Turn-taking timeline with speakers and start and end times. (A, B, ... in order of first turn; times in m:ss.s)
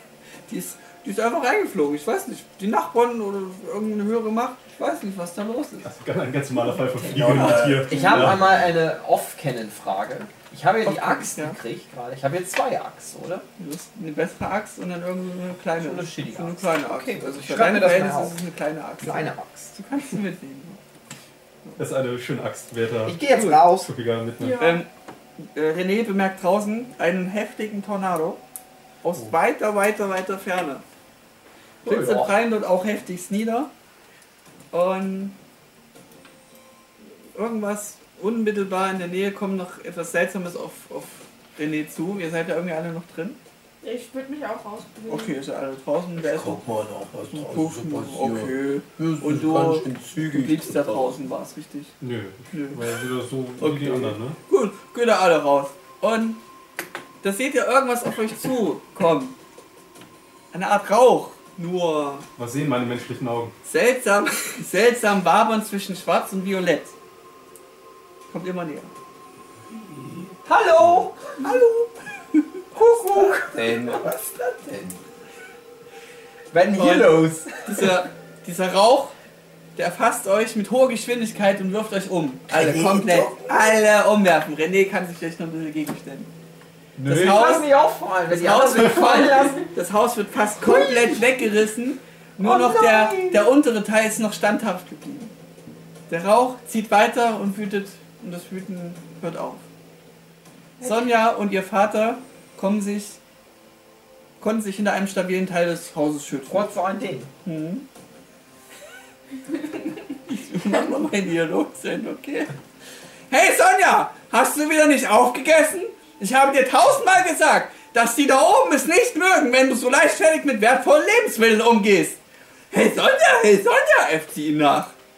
0:00.5-0:05.9 A
0:05.8-0:08.6 B
0:07.0-0:13.4 C
0:07.0-0:08.6 D
0:10.8-0:11.6 A
0:13.6-0:20.8 A
0:15.8-0:18.4 C
0:19.0-0:19.8 C
0:21.8-0:24.6 B
0:23.0-0:23.9 C
0:23.3-0:23.6 A
0:24.4-0:24.8 E
0:24.6-0:28.4 A
0:29.0-0:30.8 A
0:31.8-0:32.3 C
0:31.8-0:33.7 A
0:34.7-0:35.3 A
0:37.3-0:43.4 A
0:43.8-0:45.4 E
0:45.1-0:46.6 A
0:46.2-0:51.2 D
0:47.3-0:51.9 A
0:52.0-0:54.4 B
0:52.5-0:52.8 A
0:53.6-0:56.4 A
0:57.2-0:59.3 A
1:00.5-1:02.3 A
1:02.4-1:03.5 B
1:03.6-1:06.9 A
1:08.3-1:08.9 A
1:10.4-1:11.3 C
1:11.4-1:12.4 A
1:12.7-1:13.6 C
1:13.0-1:15.0 D
1:16.5-1:17.9 C
1:16.7-1:19.1 A
1:19.8-1:26.3 A
1:22.5-1:23.7 D
1:27.0-1:29.7 C
1:27.0-1:27.7 A
1:28.3-1:35.3 A
1:30.6-1:31.2 C
1:32.4-1:33.5 C
1:36.1-1:39.6 A
1:40.8-1:41.1 E
1:40.8-1:43.2 A
1:44.4-1:46.7 A
1:46.5-1:47.3 C
1:47.4-1:47.8 A
1:50.3-1:52.5 A
1:53.3-2:02.2 A
2:02.7-2:04.9 A